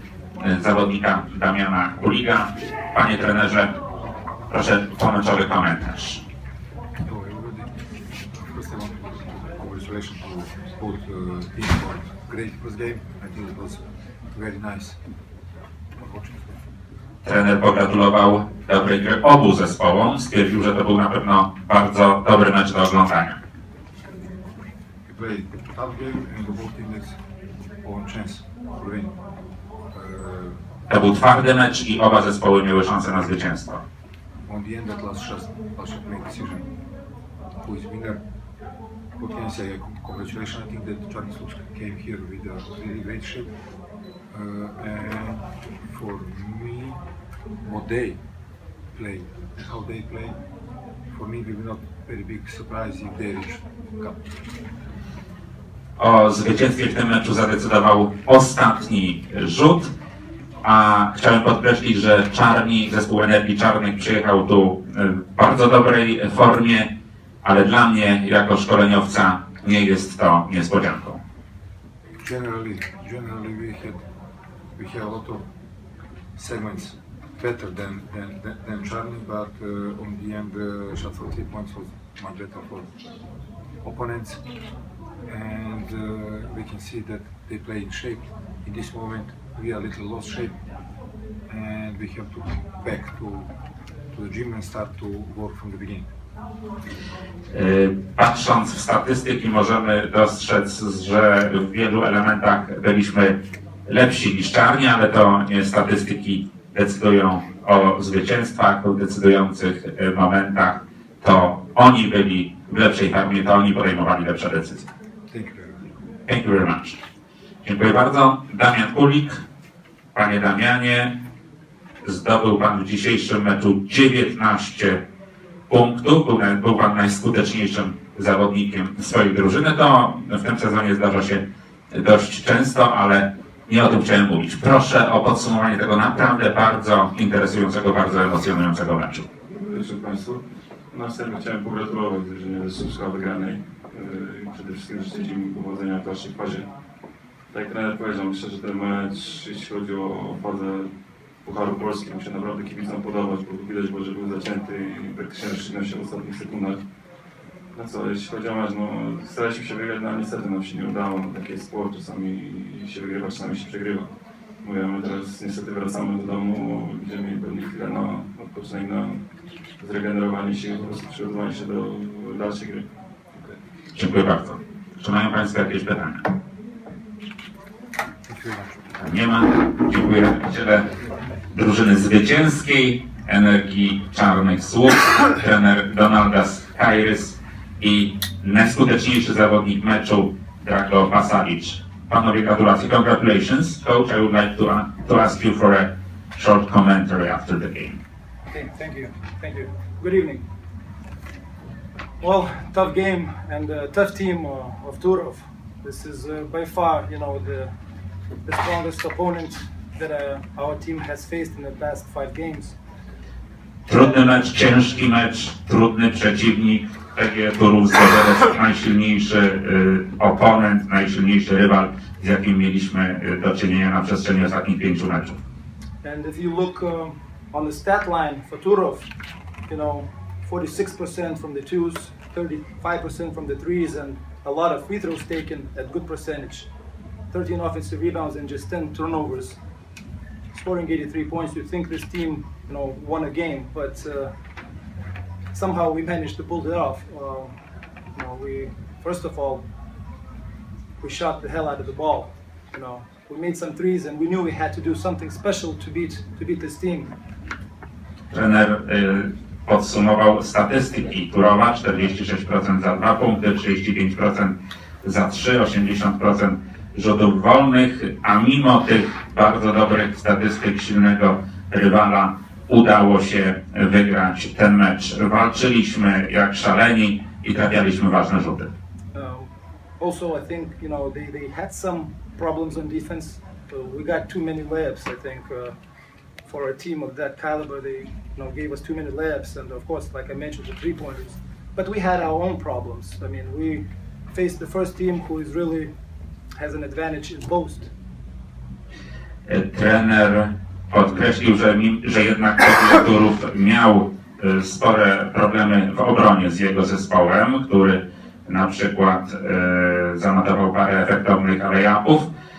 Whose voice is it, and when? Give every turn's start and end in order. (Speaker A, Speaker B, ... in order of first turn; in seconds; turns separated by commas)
Speaker A: 0.4-3.7, Speaker A: 4.5-6.2, Speaker B: 7.0-15.0, Speaker B: 15.9-16.6, Speaker A: 17.2-23.4, Speaker B: 25.1-27.2, Speaker B: 27.8-29.2, Speaker B: 29.9-30.6, Speaker A: 30.9-33.8, Speaker B: 34.4-36.7, Speaker B: 37.6-38.2, Speaker B: 39.2-43.5, Speaker B: 44.3-47.0, Speaker B: 47.6-48.2, Speaker B: 48.9-50.4, Speaker B: 51.1-54.2, Speaker A: 56.0-59.9, Speaker A: 60.6-66.9, Speaker A: 67.4-71.2, Speaker B: 72.2-74.0, Speaker B: 74.7-75.5, Speaker B: 76.3-83.0, Speaker B: 83.8-84.4, Speaker B: 85.3-90.6, Speaker B: 91.5-93.5, Speaker B: 94.1-96.1, Speaker A: 97.5-114.9, Speaker B: 115.3-115.9, Speaker A: 116.2-117.0, Speaker A: 117.6-119.4, Speaker A: 120.1-121.1, Speaker A: 122.0-125.0, Speaker A: 125.7-139.3, Speaker C: 139.5-146.7, Speaker C: 147.5-150.9, Speaker C: 151.4-156.8, Speaker C: 157.7-164.1, Speaker C: 164.6-169.2, Speaker C: 169.8-172.9, Speaker A: 173.9-176.2, Speaker B: 178.2-178.9, Speaker A: 179.0-180.8, Speaker A: 181.5-198.0, Speaker D: 198.5-200.4, Speaker D: 202.2-207.7, Speaker D: 208.4-212.8, Speaker A: 213.9-225.4, Speaker D: 226.0-229.1, Speaker D: 229.7-236.7, Speaker D: 237.3-239.6, Speaker D: 240.5-244.3, Speaker D: 245.5-247.6, Speaker D: 248.1-249.6, Speaker D: 251.0-257.1, Speaker A: 258.3-278.7, Speaker D: 279.1-285.7, Speaker D: 286.4-295.9, Speaker D: 296.6-297.9, Speaker A: 299.5-312.3